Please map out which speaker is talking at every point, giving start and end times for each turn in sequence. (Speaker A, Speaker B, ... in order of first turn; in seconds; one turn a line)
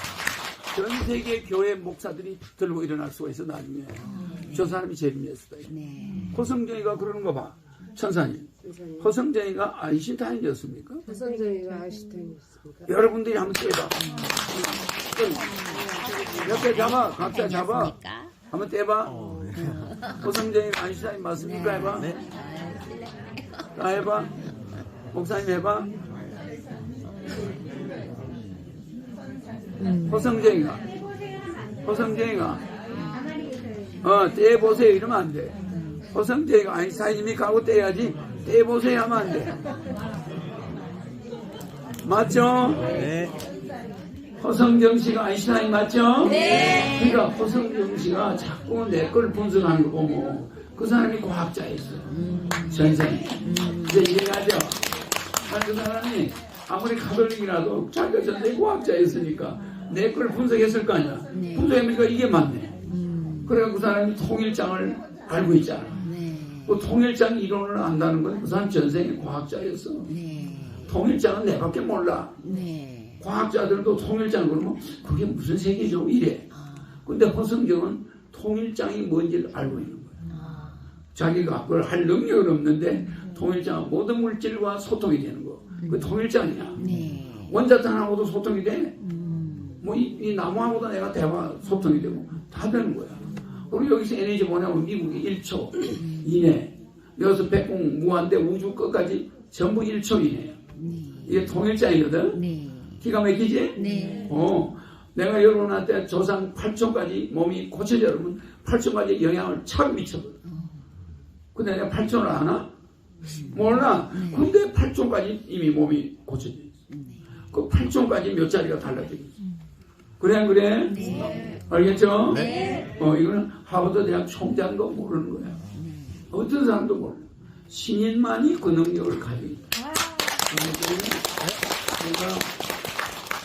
Speaker A: 0.7-5.8
Speaker B: 4.0-4.8
Speaker B: 5.7-6.5
Speaker A: 6.3-11.0
Speaker C: 8.6-9.1
Speaker C: 11.1-12.9
Speaker B: 11.6-12.1
Speaker A: 12.9-14.0
Speaker B: 13.9-14.7
Speaker A: 14.5-15.6
Speaker B: 15.5-18.3
Speaker A: 16.4-17.9
Speaker A: 18.5-19.3
Speaker B: 19.5-20.4
Speaker A: 20.2-22.1
Speaker B: 21.4-23.9
Speaker A: 23.8-24.3
Speaker B: 24.4-24.8
Speaker A: 25.1-25.9
Speaker B: 26.1-28.7
Speaker B: 29.8-30.3
Speaker A: 30.0-30.9
Speaker A: 31.8-32.6
Speaker B: 32.9-33.4
Speaker A: 34.0-35.6
Speaker B: 35.6-36.1
Speaker A: 36.1-39.6
Speaker A: 42.0-43.1
Speaker A: 44.4-52.1
Speaker B: 46.2-47.2
Speaker B: 52.1-54.2
Speaker A: 52.7-54.9
Speaker A: 55.4-62.8
Speaker B: 61.3-61.8
Speaker B: 62.8-63.6
Speaker A: 63.4-66.1
Speaker B: 66.0-66.8
Speaker A: 66.6-70.1
Speaker B: 70.0-71.0
Speaker A: 70.8-72.4
Speaker B: 72.4-73.2
Speaker A: 73.2-76.5
Speaker B: 76.5-77.0
Speaker A: 77.0-80.2
Speaker B: 80.3-81.0
Speaker A: 81.1-86.9
Speaker B: 85.8-86.2
Speaker B: 86.7-87.6
Speaker A: 87.5-89.0
Speaker B: 89.0-89.8
Speaker A: 89.8-100.6
Speaker B: 95.9-96.4
Speaker B: 100.7-101.5
Speaker A: 101.2-102.4
Speaker B: 102.3-103.0
Speaker A: 103.0-110.4
Speaker B: 103.7-104.5
Speaker B: 110.4-110.9
Speaker A: 111.5-112.7
Speaker B: 113.2-114.5
Speaker A: 113.5-116.7
Speaker B: 116.9-117.3
Speaker A: 117.5-119.3
Speaker A: 120.2-121.1
Speaker B: 120.8-121.6
Speaker A: 121.7-125.6
Speaker B: 122.3-122.9
Speaker B: 125.7-126.3
Speaker A: 126.3-129.7
Speaker A: 130.5-132.5